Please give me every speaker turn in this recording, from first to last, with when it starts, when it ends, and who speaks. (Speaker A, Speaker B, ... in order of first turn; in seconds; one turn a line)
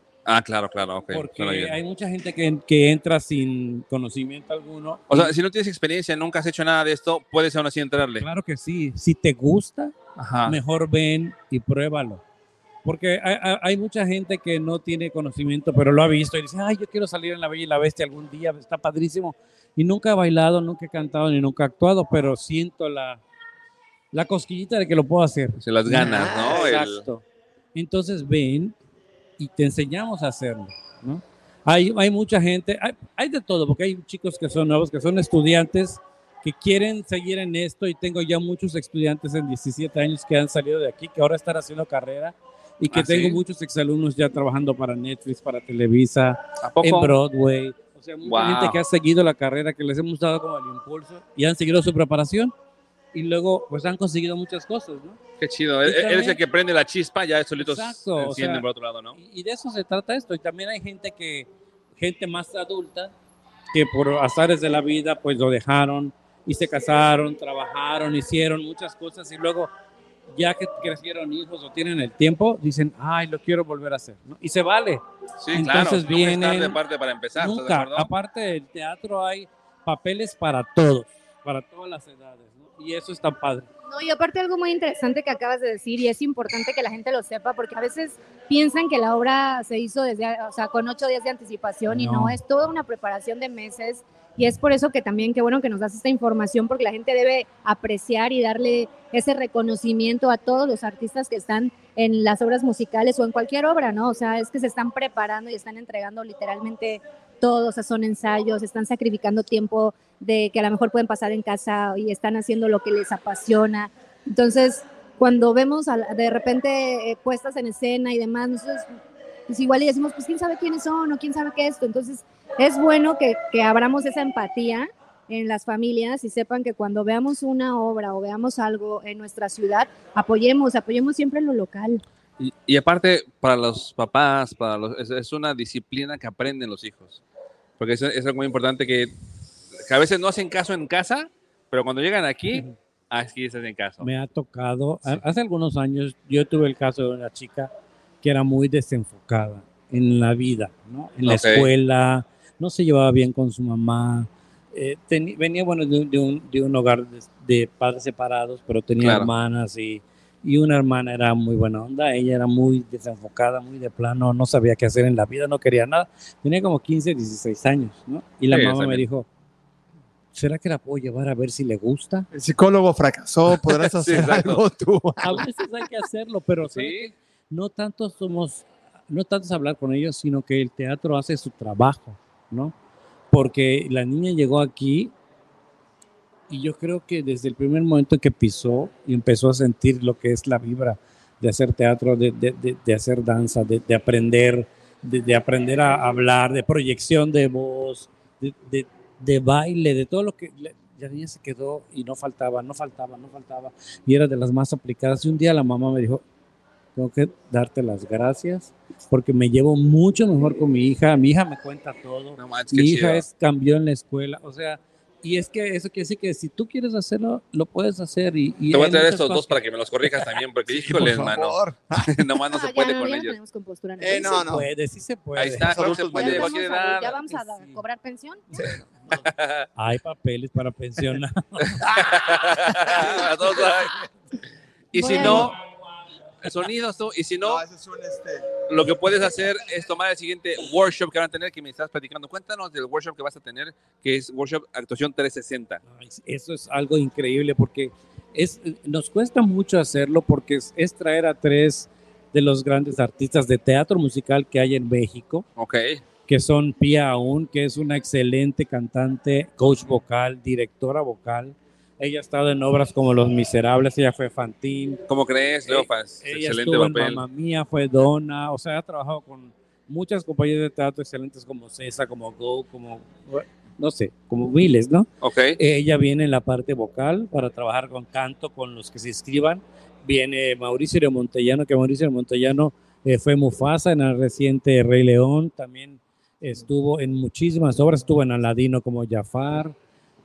Speaker A: 0.3-1.8
Speaker B: 1.1-5.3
Speaker A: 5.1-8.2
Speaker B: 8.2-9.9
Speaker A: 10.2-10.6
Speaker B: 10.5-12.2
Speaker B: 12.8-23.2
Speaker B: 24.1-28.8
Speaker A: 25.6-27.0
Speaker C: 25.9-26.6
Speaker B: 29.4-52.5
Speaker A: 42.9-43.4
Speaker A: 46.6-47.1
Speaker A: 48.2-48.8
Speaker B: 53.1-55.2
Speaker A: 55.4-59.2
Speaker B: 55.9-56.4
Speaker B: 57.6-63.1
Speaker B: 63.7-69.7
Speaker B: 70.3-75.0
Speaker A: 75.4-78.1
Speaker B: 75.5-76.8
Speaker B: 77.4-83.7
Speaker D: 83.9-118.9
Speaker B: 91.9-92.4
Speaker D: 119.5-132.0
Speaker A: 132.4-137.2
Speaker A: 137.8-139.1
Speaker A: 139.8-144.1
Speaker B: 144.0-147.7
Speaker B: 148.2-169.3
Speaker A: 151.2-151.7
Speaker A: 159.0-159.3
Speaker A: 168.5-169.0
Speaker B: 170.3-172.3
Speaker C: 172.3-175.5
Speaker A: 173.7-174.6
Speaker B: 175.2-182.7
Speaker A: 176.7-177.1
Speaker B: 183.3-185.1
Speaker B: 186.5-206.2
Speaker B: 207.0-219.6
Speaker A: 212.4-213.2
Speaker A: 218.7-223.4
Speaker C: 220.7-222.3
Speaker D: 222.5-224.5
Speaker C: 224.0-224.7
Speaker B: 224.4-225.8
Speaker A: 225.4-227.2
Speaker C: 225.6-226.5
Speaker D: 226.1-228.7
Speaker B: 227.0-227.8
Speaker A: 229.1-229.7
Speaker B: 229.8-231.8
Speaker A: 231.8-234.0
Speaker A: 234.9-235.6
Speaker D: 235.0-235.5
Speaker A: 236.4-237.6
Speaker C: 237.4-238.5
Speaker A: 238.7-245.8
Speaker B: 245.9-255.5
Speaker A: 255.6-256.0
Speaker B: 256.3-265.0
Speaker A: 265.1-267.2
Speaker B: 265.7-289.8
Speaker A: 275.2-275.6